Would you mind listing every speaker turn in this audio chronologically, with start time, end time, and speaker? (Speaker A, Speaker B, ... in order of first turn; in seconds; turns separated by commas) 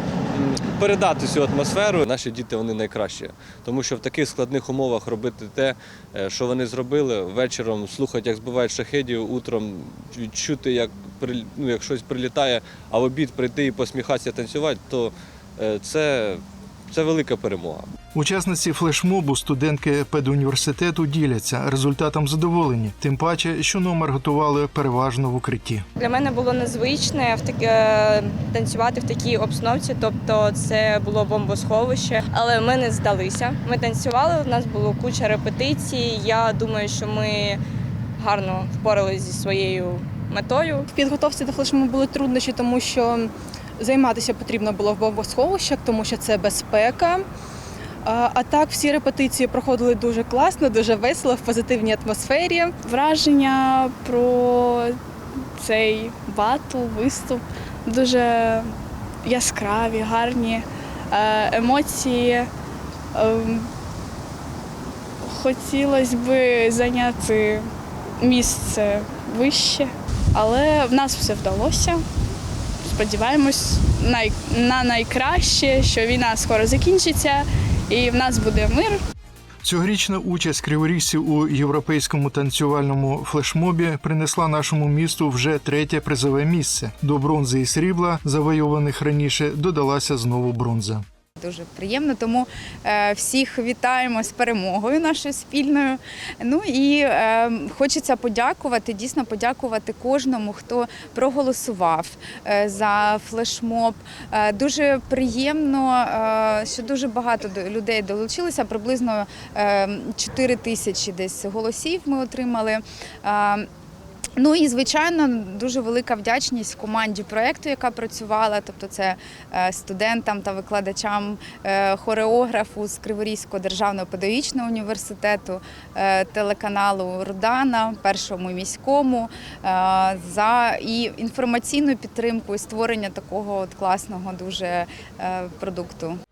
Speaker A: 0.3-17.9, Speaker B: 18.1-25.9, Speaker C: 26.0-37.6, Speaker C: 38.2-40.9, Speaker D: 40.9-47.2, Speaker D: 48.0-52.7, Speaker E: 52.8-55.0, Speaker E: 55.6-58.7, Speaker E: 59.2-62.5, Speaker E: 63.1-63.7, Speaker E: 65.2-67.7, Speaker E: 68.2-72.0, Speaker E: 72.8-79.0, Speaker B: 79.6-91.0, Speaker F: 91.4-113.7, Speaker F: 114.4-136.2